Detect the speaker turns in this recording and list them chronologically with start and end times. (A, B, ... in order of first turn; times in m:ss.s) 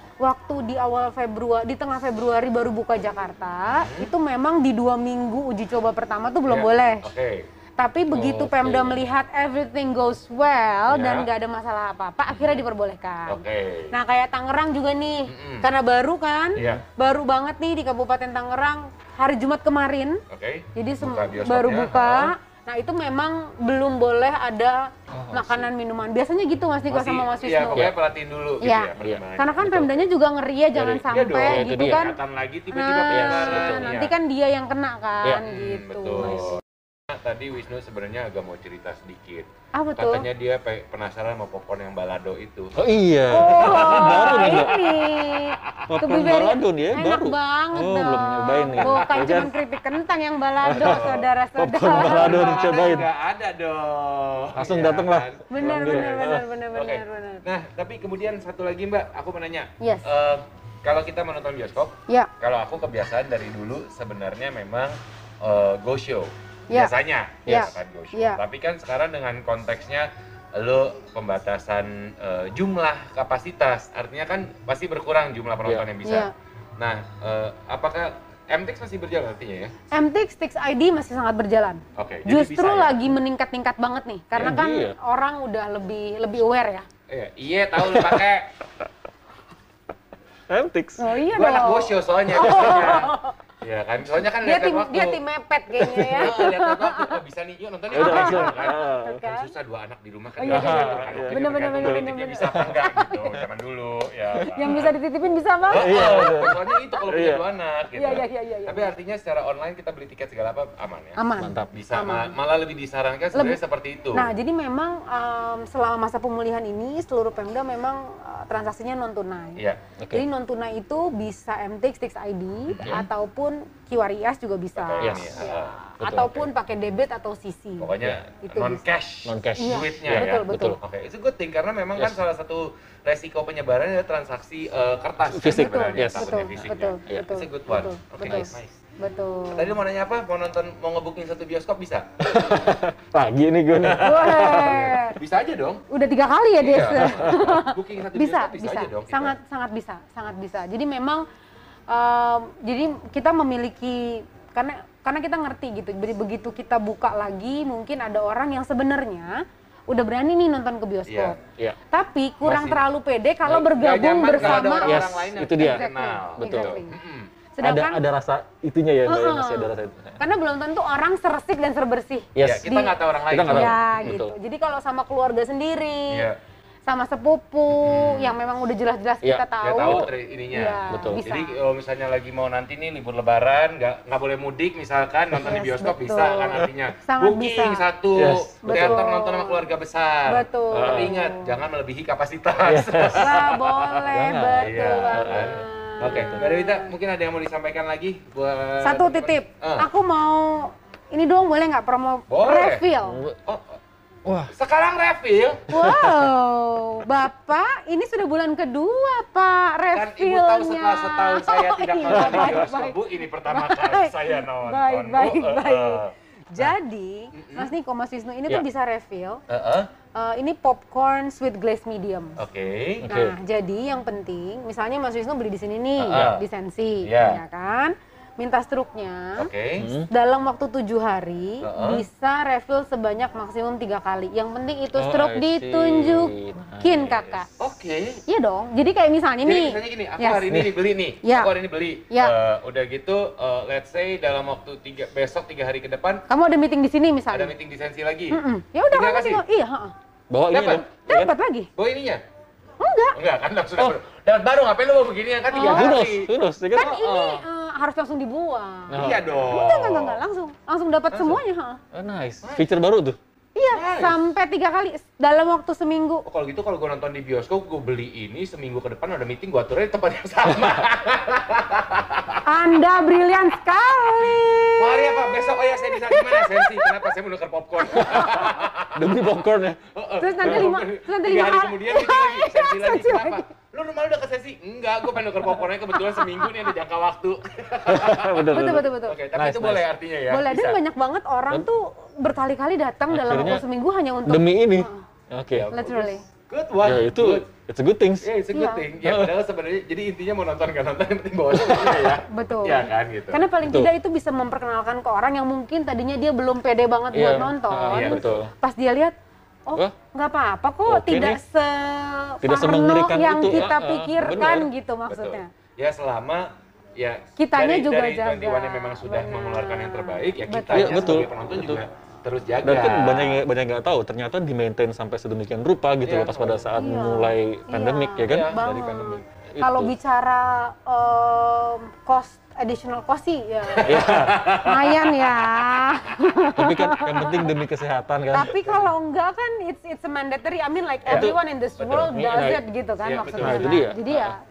0:00.2-0:07.1 A
0:03.7-0:04.1 B
0:06.4-0:07.5 B
0:07.8-0:20.2 A
0:08.1-0:09.0 C
0:08.2-0:08.5 B
0:10.9-0:11.3 B
0:13.3-0:13.9 B
0:15.3-0:15.7 B
0:16.6-0:16.8 C
0:16.6-0:16.8 B
0:20.3-0:22.3 B
0:20.7-0:27.9 A
0:25.1-0:25.7 C
0:26.9-0:29.9 B
0:28.6-0:32.2 A
0:29.0-0:29.9 C
0:30.7-0:32.0 C
0:31.1-0:34.1 B
0:32.7-0:36.6 A
0:33.1-0:34.1 C
0:35.4-0:42.8 B
0:36.2-0:36.5 C
0:39.7-0:40.2 A
0:42.8-0:44.8 C
0:43.3-0:52.7 A
0:43.3-0:46.0 B
0:45.9-0:49.5 C
0:48.8-0:49.6 B
0:50.6-0:53.1 C
0:50.7-0:51.3 B
0:51.9-1:19.7 B
0:54.6-0:56.4 C
0:55.5-0:57.4 A
0:59.8-1:00.1 A
1:07.4-1:08.4 A
1:07.4-1:07.7 C
1:16.0-1:16.3 A
1:19.9-1:26.9 A
1:22.0-1:23.1 B
1:24.3-1:25.0 C
1:27.1-1:28.5 B
1:27.8-1:28.2 C
1:30.5-1:31.2 C
1:31.0-1:33.3 A
1:31.3-1:35.2 B
1:34.4-1:37.2 A
1:35.8-1:36.3 C
1:36.1-1:44.9 B
1:37.9-1:39.2 C
1:37.9-1:39.5 A
1:40.4-1:43.3 A
1:40.5-1:42.8 C
1:44.3-1:44.8 C
1:44.5-1:46.9 A
1:45.7-1:51.2 B
1:45.7-1:47.4 C
1:47.9-1:48.9 A
1:51.2-1:52.4 A
1:51.4-1:51.8 C
1:51.7-1:54.3 B
1:53.3-1:53.6 A
1:54.1-2:07.9 A
1:59.6-1:59.8 B
2:00.0-2:00.2 C
2:02.7-2:03.1 B
2:04.8-2:05.8 B
2:05.0-2:05.4 C
2:06.0-2:06.5 C
2:07.8-2:18.8 B
2:08.4-2:08.8 A
2:09.2-2:10.8 C
2:09.6-2:10.8 A
2:15.3-2:17.3 C
2:15.4-2:19.7 A
2:18.2-2:18.5 C
2:19.5-2:22.6 B
2:22.3-2:25.0 C
2:23.7-2:25.8 B
2:24.0-2:25.2 A
2:25.9-2:31.2 A
2:26.6-2:29.3 B
2:26.7-2:27.5 C
2:31.9-2:41.4 A
2:41.1-2:41.3 B
2:41.9-2:46.9 A
2:42.4-2:42.8 B
2:43.5-2:47.3 B
2:44.3-2:45.8 C
2:46.4-2:46.8 C
2:47.6-2:48.0 A
2:47.6-2:50.2 C
2:49.0-2:56.3 A
2:52.3-2:52.7 C
2:52.4-2:54.2 B
2:53.3-2:54.3 C
2:56.1-2:56.4 B
2:56.8-3:01.6 A
2:57.7-2:58.4 B
2:59.2-3:00.1 C
2:59.6-3:13.7 B
3:00.9-3:01.2 C
3:05.4-3:07.9 A
3:08.1-3:09.0 C
3:08.6-3:09.7 A
3:10.2-3:11.5 A
3:10.7-3:11.2 C
3:12.6-3:13.4 C
3:13.1-3:16.9 A
3:14.1-3:16.5 C
3:14.6-3:19.9 B
3:18.8-3:23.3 A
3:22.3-3:22.8 B
3:23.0-3:23.4 C
3:23.4-3:23.8 B
3:24.2-3:24.5 C
3:24.5-3:25.7 B
3:25.7-3:39.4 A
3:25.7-3:26.3 C
3:29.9-3:36.7 B
3:32.1-3:32.6 C
3:37.3-3:37.7 B
3:39.5-3:39.9 B
3:40.1-3:42.4 A
3:42.4-3:43.1 B
3:43.0-3:43.4 C
3:43.1-3:49.5 A
3:46.0-3:46.4 B
3:47.0-3:47.4 B
3:49.4-3:49.9 B
3:49.8-3:50.1 C
3:50.1-3:57.5 A
3:51.6-3:52.0 B
3:54.9-3:57.7 C
3:57.6-3:58.2 B
3:58.3-4:00.5 A
3:59.4-4:06.2 B
4:01.2-4:01.5 A
4:02.1-4:02.3 A
4:06.3-4:07.5 A
4:07.3-4:08.4 B
4:08.3-4:09.9 A
4:08.9-4:09.4 B
4:10.3-4:11.3 C
4:10.5-4:10.9 B
4:11.0-4:11.7 A
4:11.8-4:12.2 B
4:12.8-4:13.2 A
4:13.1-4:17.4 B
4:15.5-4:16.0 A
4:15.6-4:17.0 C
4:16.7-4:21.8 A
4:18.9-4:19.5 C
4:18.9-4:20.2 B
4:21.1-4:21.4 B
4:21.9-4:23.2 C
4:22.4-4:22.7 B
4:23.5-4:26.2 A
4:23.7-4:24.2 B
4:26.2-4:32.4 B
4:32.4-4:37.1 A
4:34.8-4:39.1 B
4:37.9-4:38.5 A
4:38.9-4:39.8 C
4:39.9-4:50.7 B
4:40.2-4:43.5 A
4:40.4-4:40.7 C
4:45.9-4:46.6 A
4:47.8-4:49.9 C
4:48.5-4:49.2 A
4:50.3-4:55.0 A
4:53.1-4:53.6 C
4:54.2-4:55.7 C
4:55.5-4:57.5 B
4:55.7-4:56.2 A
4:56.8-4:58.3 C
4:58.2-5:03.4 B
4:58.5-4:58.8 A
4:59.0-4:59.3 C
5:01.5-5:02.2 C
5:02.3-5:09.1 A
5:03.6-5:03.9 C
5:07.1-5:08.5 C
5:07.9-5:08.4 B
5:09.6-5:15.5 A
5:10.9-5:11.4 C
5:12.4-5:14.7 C
5:13.5-5:13.7 B
5:14.3-5:23.4 B
5:17.4-5:21.2 A
5:20.7-5:21.8 C
5:22.6-5:29.9 C
5:26.0-5:26.7 B
5:26.7-5:37.5 A
5:28.2-5:28.8 B
5:33.7-5:35.8 B
5:33.8-5:34.4 C
5:36.6-5:38.6 C
5:38.3-5:44.4 A
5:38.6-5:38.9 B
5:41.0-5:42.1 B
5:41.1-5:42.6 C
5:43.0-5:43.8 B
5:43.3-5:44.3 C